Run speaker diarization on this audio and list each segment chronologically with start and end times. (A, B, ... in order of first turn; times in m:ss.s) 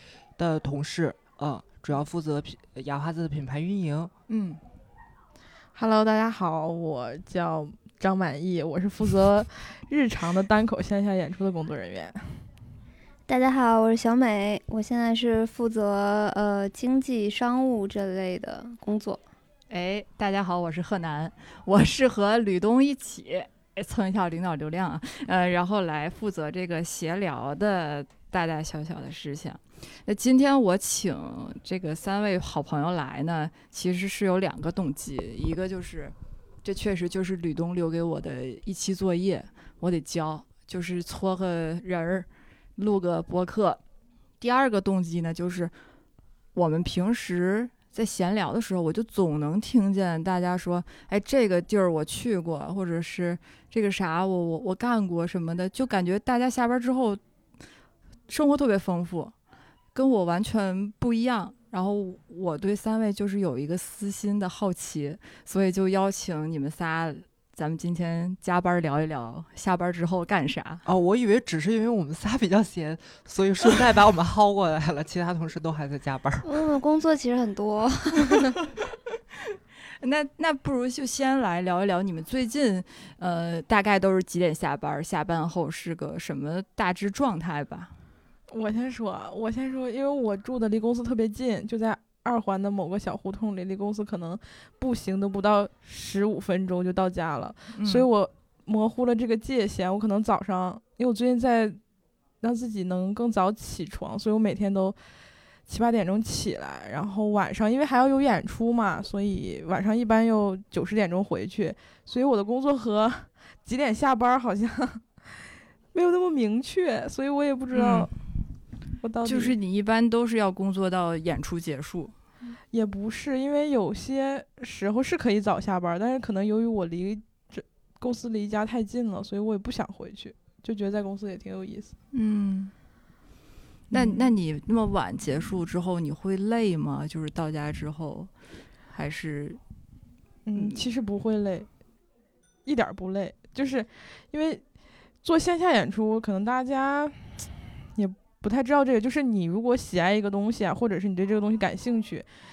0:00.4-0:04.1 A
0:04.3-0:04.6 B
0:05.7-0:12.4 C
0:13.3-0:19.2 D
0:19.7-0:43.8 B
0:44.4-0:45.7 B
0:46.5-0:57.2 B
0:58.3-0:59.3 B
0:59.9-1:10.8 B
1:10.8-1:16.5 A
1:16.4-1:18.6 D
1:20.0-1:27.9 B
1:28.5-1:41.8 C
1:37.7-1:38.1 B
1:42.4-1:45.0 C
1:45.7-1:55.1 C
1:55.9-1:58.1 C
1:57.7-1:58.1 B
1:59.0-1:59.6 C
1:59.2-2:02.1 B
2:02.7-2:11.9 C
2:12.1-2:12.7 B
2:13.9-2:14.3 C
2:13.9-2:18.3 B
2:18.9-2:19.6 B
2:20.4-2:21.7 C
2:20.5-2:20.8 B
2:22.6-2:24.6 C
2:25.2-2:32.3 C